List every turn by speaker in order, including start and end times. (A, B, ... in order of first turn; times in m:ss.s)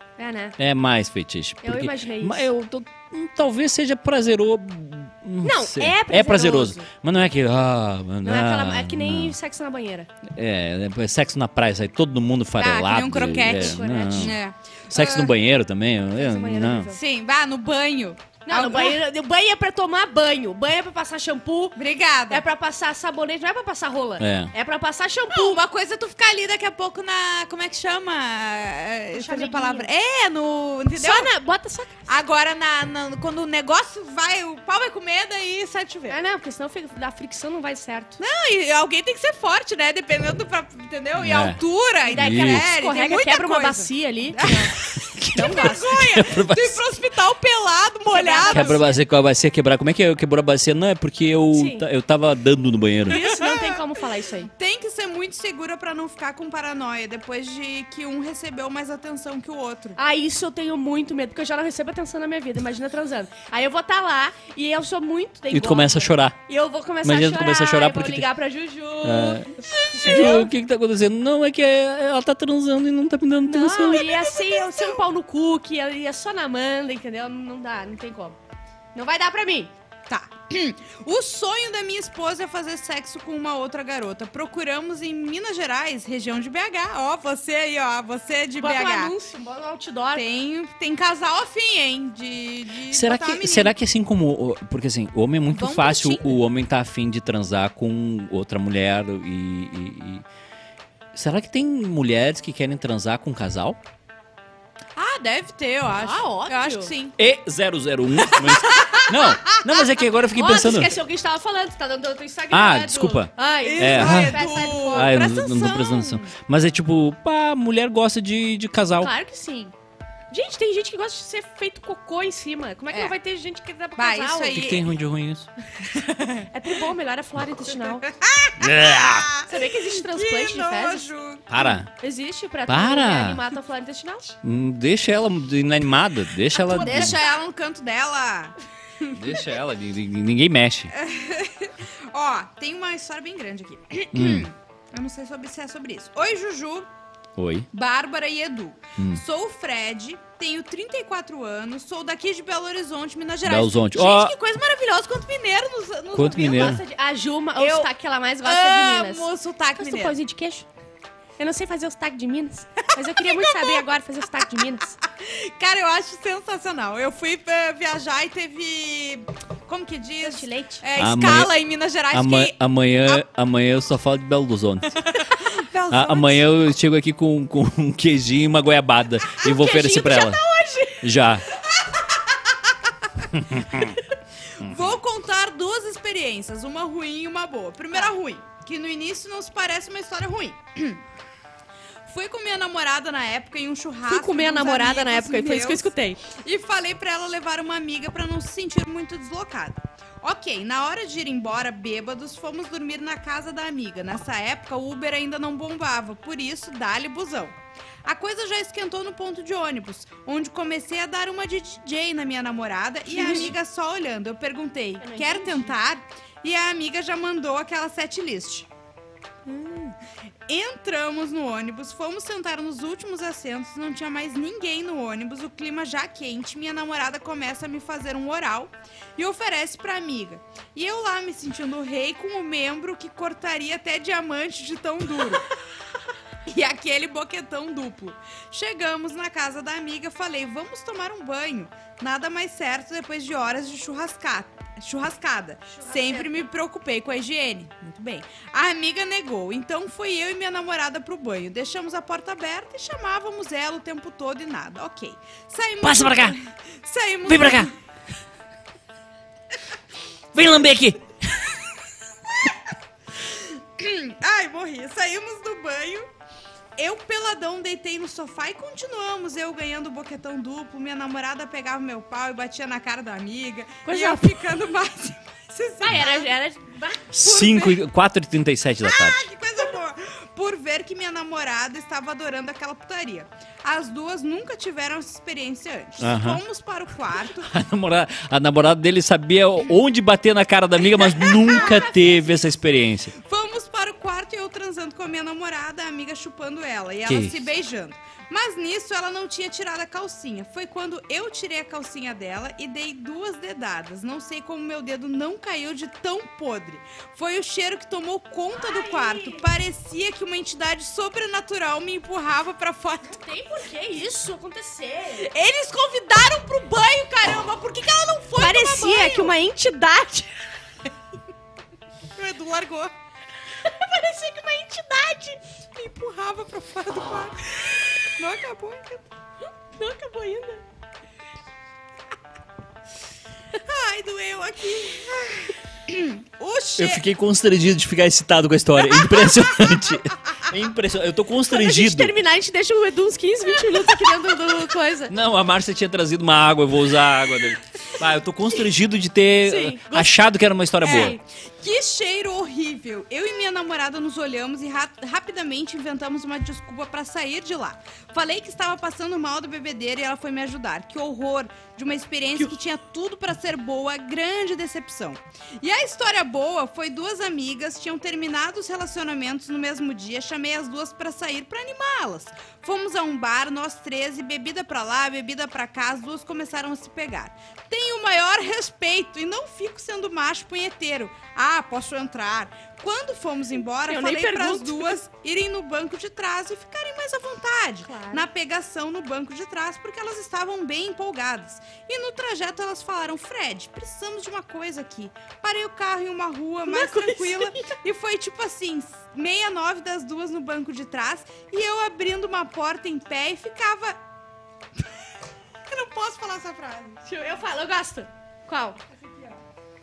0:00.2-0:00.6 A
0:00.6-0:09.4 B
0:01.6-0:02.5 A
0:05.4-0:06.9 A
0:08.2-0:10.1 A
0:10.3-0:14.4 B
0:12.6-0:15.3 C
0:13.4-0:14.3 A
0:14.9-0:16.9 B
0:16.2-0:17.0 A
0:16.9-0:19.0 C
0:18.4-0:21.8 A
0:21.8-0:22.4 C
0:22.3-0:25.6 A
0:24.2-0:24.5 B
0:25.3-0:31.3 C
0:29.1-0:29.9 A
0:30.9-0:31.9 A
0:32.1-0:36.2 C
0:36.1-0:38.2 A
0:38.2-0:48.8 C
0:41.2-0:41.6 B
0:42.1-0:44.7 A
0:42.1-0:42.6 B
0:45.2-0:46.8 B
0:45.3-0:45.8 A
0:48.1-0:49.0 A
0:48.5-0:53.2 B
0:51.5-0:51.8 A
0:53.1-0:54.5 A
0:53.1-0:53.8 C
0:54.5-1:00.0 C
1:00.0-1:10.5 A
1:05.5-1:06.4 B
1:07.0-1:08.3 B
1:09.0-1:14.2 B
1:09.7-1:10.4 C
1:13.5-1:18.4 A
1:13.9-1:15.0 C
1:18.9-1:19.7 A
1:20.1-1:29.1 C
1:28.6-1:30.2 A
1:30.1-1:33.7 C
1:32.9-1:40.2 B
1:35.5-1:36.4 C
1:41.1-1:43.8 B
1:45.0-1:47.2 C
1:46.0-1:46.9 A
1:47.2-1:51.0 B
1:48.2-1:49.6 C
1:50.3-1:55.1 A
1:52.5-1:59.1 B
1:53.6-1:56.3 C
1:59.0-1:59.7 A
2:00.3-2:04.6 A
2:04.0-2:04.9 C
2:04.5-2:05.5 B
2:05.8-2:06.5 C
2:06.5-2:08.1 A
2:07.8-2:11.8 C
2:08.6-2:09.3 B
2:09.4-2:11.1 A
2:11.5-2:11.9 B
2:12.0-2:14.3 A
2:12.7-2:13.4 B
2:14.4-2:17.2 B
2:16.6-2:19.5 C
2:16.6-2:17.2 A
2:19.1-2:20.9 B
2:20.9-2:26.9 C
2:24.1-2:24.5 B
2:27.4-2:27.7 B
2:27.7-2:36.8 C
2:33.4-2:34.4 B
2:36.1-2:36.8 B
2:36.4-2:40.6 A
2:37.6-2:40.2 C
2:41.4-2:45.0 A
2:43.1-2:43.8 C
2:45.0-2:53.2 C
2:50.2-2:50.8 A
2:51.0-2:51.5 B
2:52.1-2:55.0 B
2:55.0-2:56.5 C
2:55.9-3:00.4 B
2:59.4-3:01.1 A
3:01.0-3:01.4 B
3:03.3-3:03.9 B
3:04.5-3:11.0 C
3:12.1-3:38.7 C
3:14.1-3:16.2 A
3:33.1-3:33.5 A
3:35.0-3:35.8 A
3:39.5-3:39.9 C
3:40.5-3:55.5 C
3:56.4-4:17.7 C
4:05.8-4:06.4 A
4:15.8-4:16.4 B
4:17.2-4:17.7 B
4:20.3-4:21.5 B
4:23.3-4:26.1 C
4:26.8-4:36.3 C
4:33.8-4:34.5 A
4:35.8-4:37.1 A
4:37.1-4:39.3 B
4:37.2-4:37.8 C
4:38.8-4:47.5 C
4:46.0-4:46.4 B
4:47.4-4:53.1 B
4:51.0-4:51.9 C
4:51.5-4:52.0 A
4:53.2-5:13.2 C
4:57.0-4:57.4 B
5:08.5-5:09.4 A
5:13.1-5:15.3 A
5:15.2-5:19.3 C
5:18.3-5:20.3 A
5:22.2-5:22.9 C
5:23.6-5:25.4 A
5:25.7-5:29.0 C
5:29.7-5:30.6 A
5:33.5-5:37.0 C
5:36.8-5:42.1 B
5:41.5-5:45.1 A
5:45.1-5:51.2 B
5:49.4-5:50.3 A
5:50.8-5:51.2 A
5:50.8-6:44.0 C
6:23.9-6:25.0 A
6:27.8-6:28.2 A
6:36.7-6:37.8 A
6:45.7-6:47.0 C
6:47.0-6:48.8 A
6:48.9-6:49.4 C